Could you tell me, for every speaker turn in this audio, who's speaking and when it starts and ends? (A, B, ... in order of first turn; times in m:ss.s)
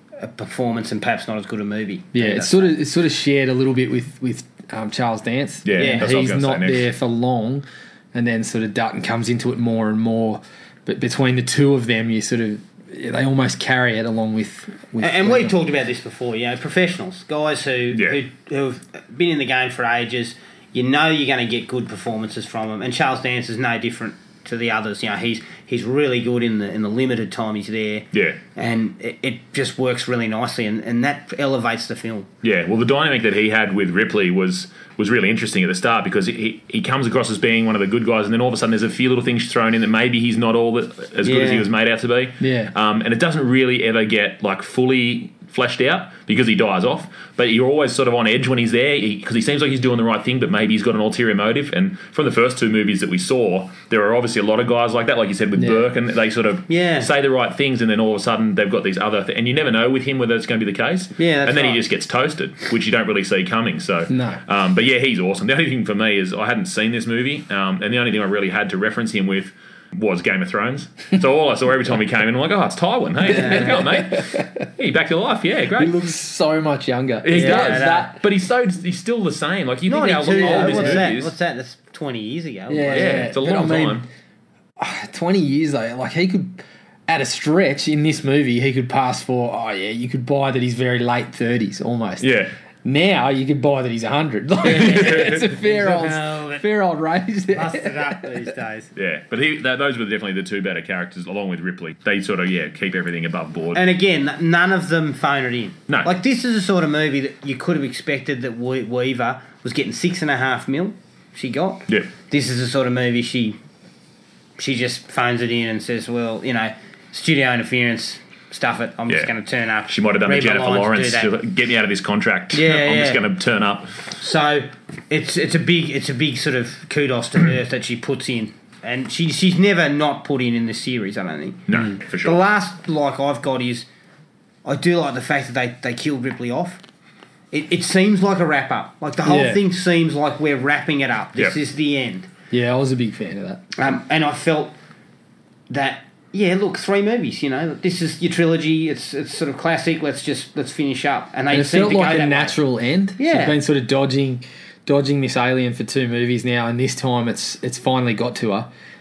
0:00.2-0:02.8 A
0:02.1-0:15.6 B
0:05.6-0:06.9 C
0:05.7-0:06.1 A
0:15.0-0:32.3 A
0:17.9-0:18.2 C
0:28.1-0:28.4 C
0:32.4-1:16.0 C
0:41.2-0:41.6 A
0:42.4-0:42.7 B
0:55.6-0:55.8 B
0:56.7-0:57.1 A
1:01.2-1:01.8 A
1:04.1-1:04.4 B
1:13.3-1:13.8 A
1:13.4-1:14.5 B
1:15.7-1:18.2 B
1:17.2-1:21.3 C
1:17.3-1:18.1 A
1:19.9-1:23.3 A
1:20.3-1:21.0 B
1:22.7-1:24.1 B
1:22.9-1:24.0 C
1:24.8-1:32.3 B
1:32.2-1:32.5 C
1:32.8-1:38.4 B
1:34.6-1:36.7 A
1:34.7-1:35.4 C
1:37.5-1:38.9 A
1:38.9-1:43.8 C
1:43.7-1:53.6 A
1:54.6-2:01.3 A
1:59.9-2:04.1 C
2:02.5-2:03.2 A
2:04.2-2:11.6 A
2:11.7-2:12.4 C
2:12.2-2:13.9 A
2:14.6-2:16.8 A
2:17.5-2:22.3 A
2:19.2-2:19.6 B
2:22.5-2:23.6 B
2:23.7-2:24.7 A
2:25.7-2:32.6 A
2:31.5-2:38.7 B
2:33.2-2:33.6 A